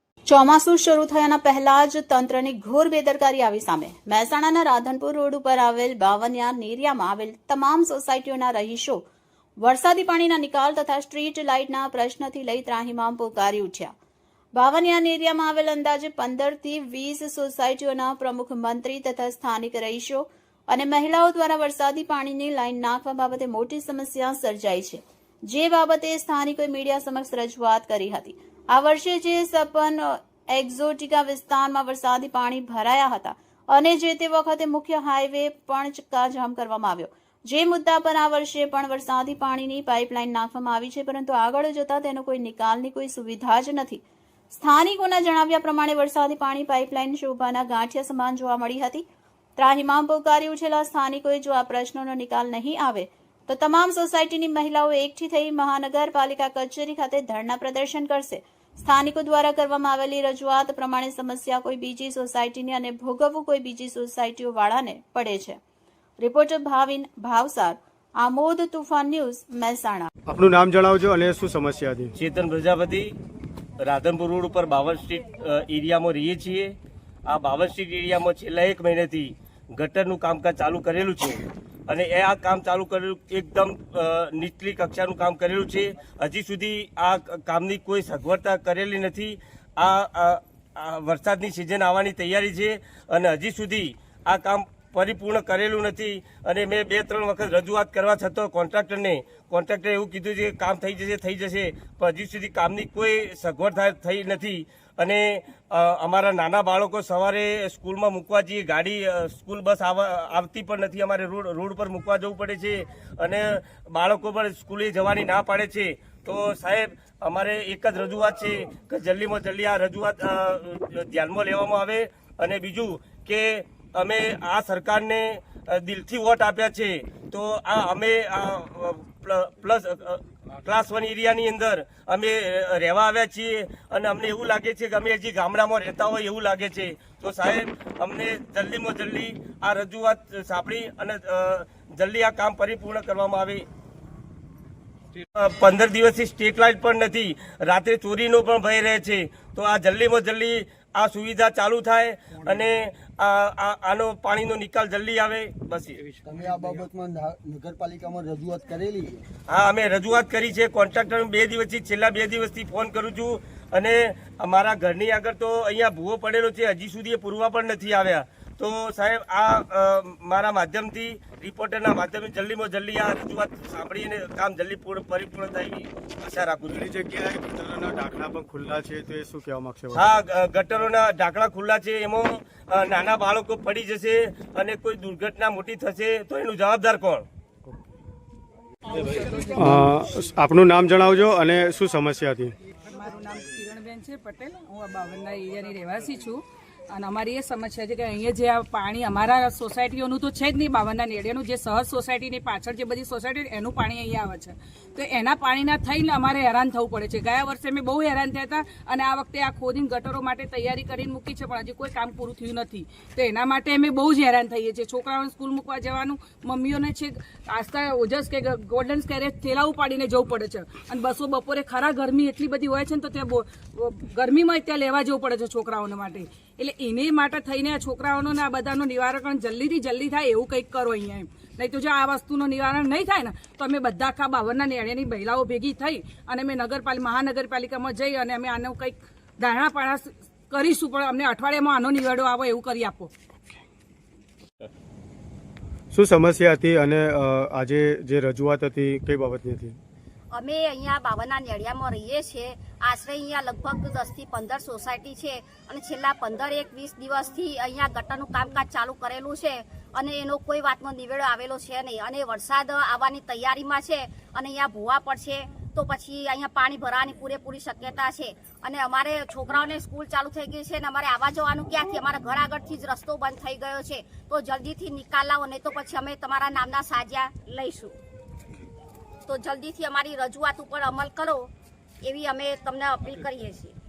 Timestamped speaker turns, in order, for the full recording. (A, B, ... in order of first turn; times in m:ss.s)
0:00.3-0:09.0 A
0:09.6-0:13.9 A
0:14.6-0:49.0 A
0:49.6-1:05.6 A
1:06.2-1:10.1 A
1:10.3-1:12.1 B
1:12.2-1:13.1 C
1:13.8-1:16.8 C
1:17.3-2:23.6 C
2:25.4-2:36.1 C
2:36.2-2:39.2 D
2:39.5-2:56.9 C
2:56.7-3:00.1 B
2:59.9-3:07.2 C
3:08.9-3:09.8 E
3:09.5-3:12.5 B
3:12.9-4:03.1 E
4:05.9-4:09.8 B
4:10.3-4:37.9 F
4:39.3-4:41.5 F
4:42.0-4:43.7 F